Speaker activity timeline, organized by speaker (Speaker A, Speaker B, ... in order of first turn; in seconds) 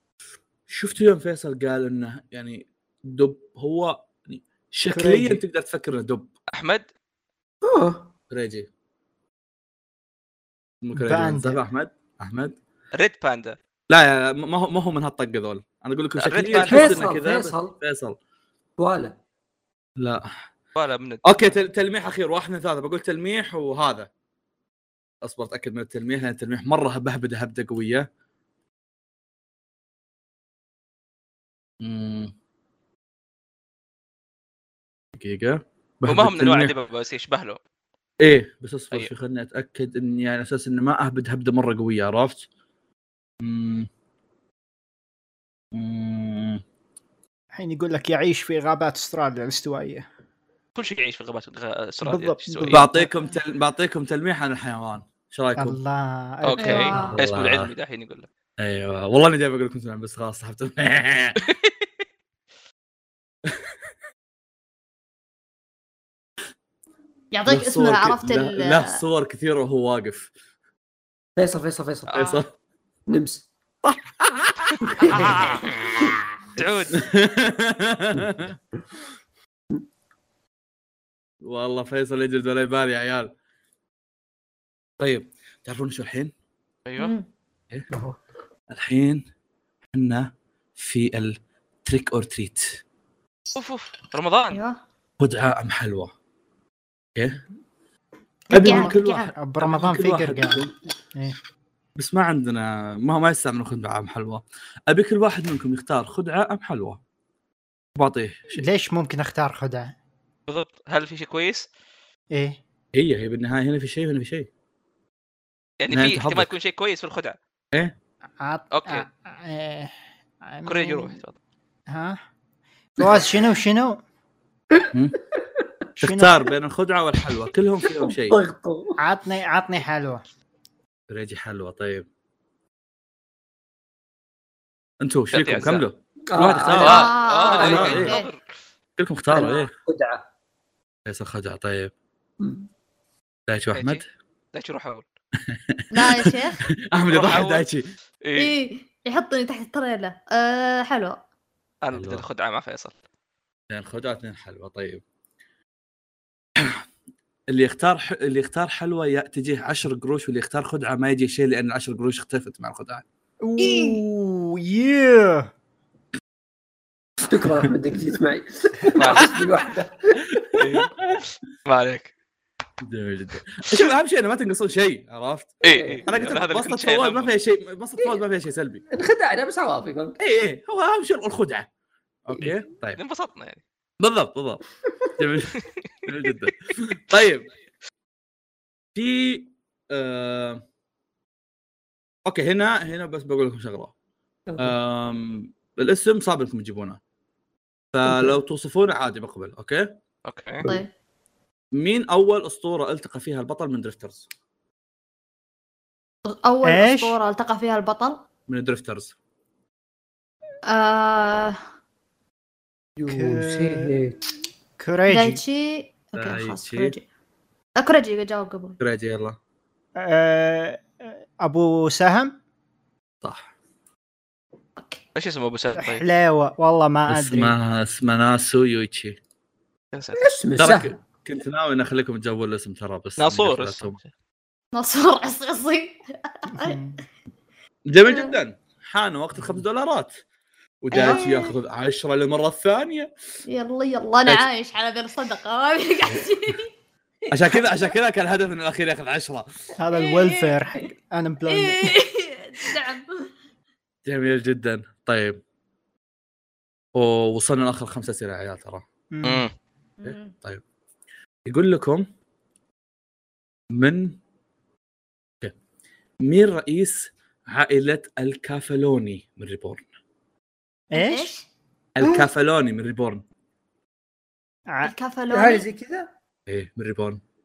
Speaker A: 0.7-6.3, 8.3-8.7, 10.8-12.5, 13.9-18.2, 20.0-20.3, 21.2-24.1, 25.2-28.1, 31.8-32.3, 35.1-36.7, 38.2-42.5, 43.4-43.9, 45.7-46.6, 52.7-55.8, 57.1-57.7, 58.6-61.4, 67.5-70.3, 72.1-72.5, 73.8-75.7, 76.9-78.6, 81.4-83.3, 85.0-86.3, 88.7-89.2, 89.9-92.8, 95.2-96.1, 97.1-97.4, 98.5-100.7, 102.0-107.0, 108.0-108.7, 112.9-114.5, 115.9-116.5, 124.9-125.2, 126.0-128.4, 131.1-132.1, 135.0-138.2, 139.0-139.7, 141.1-141.9, 143.5-144.0, 145.5-147.9, 151.9-152.2, 153.7-155.0, 157.5-163.0, 170.5-171.2, 172.8-175.5, 176.1-178.8, 180.2-181.7, 182.2-183.0, 184.0-184.6, 185.1-187.4, 188.9-190.6, 192.2-193.9, 194.6-197.0, 197.9-199.9, 201.7-204.3, 208.5-209.1, 216.1-216.9, 218.8-219.3, 227.1-229.2, 230.6-234.0, 237.9-240.1, 240.8-243.1, 247.3-249.4, 254.0-255.4, 256.9-258.8, 260.0-260.6, 261.4-262.1, 263.7-264.2, 266.2-269.8, 271.9-273.2, 276.5-277.2
Speaker B: 4.9-5.4, 10.9-11.6, 47.5-50.0, 52.0-53.3, 55.5-57.1, 98.5-101.3, 108.5-109.9, 112.3-112.6, 118.4-121.2, 121.9-122.2, 123.0-124.0, 126.0-126.3, 129.0-130.2, 163.4-165.5, 206.6-207.2, 213.1-214.0, 214.8-215.4, 219.9-222.4, 225.8-227.5, 236.6-237.0, 249.8-252.0, 259.1-259.4, 270.9-271.3
Speaker C: 6.5-6.8, 12.9-13.6, 16.2-17.1, 20.7-21.6, 36.1-37.6, 50.7-52.9, 56.4-58.3, 61.4-61.7, 76.5-77.0, 86.8-87.1, 93.5-94.6, 110.5-111.7, 115.8-117.4, 118.7-119.0, 120.6-121.3, 135.3-135.8, 136.8-138.4, 143.7-144.0, 144.5-145.0, 147.1-147.7, 148.2-148.5, 151.8-152.9, 168.9-169.4, 170.6-172.1, 175.6-177.3, 182.9-183.6, 200.2-200.6, 225.1-226.0, 229.9-230.3, 233.2-234.1, 259.2-259.5
Speaker D: 7.6-8.1, 16.5-17.8, 18.8-19.1, 71.4-72.1, 73.1-73.5, 75.0-75.6, 87.9-88.2, 128.0-129.0, 136.3-138.0, 139.3-140.2, 142.4-142.7, 167.2-170.4, 175.7-176.1, 178.9-180.2, 194.5-194.7, 198.1-198.3, 212.9-214.2, 230.2-231.0, 272.0-272.3, 275.3-276.1
Speaker E: 56.5-57.2, 67.3-69.0, 87.0-87.2, 94.5-94.8, 98.5-99.3, 136.8-138.3, 145.9-146.6, 148.3-151.2, 163.6-164.0, 200.6-200.9, 206.2-208.2, 210.7-211.6, 215.1-217.0, 217.8-218.8, 224.8-225.0, 234.7-236.8, 238.0-238.4, 240.9-241.5, 243.5-246.7, 249.9-250.8, 251.5-253.3, 260.0-260.3, 270.9-271.4, 274.8-275.6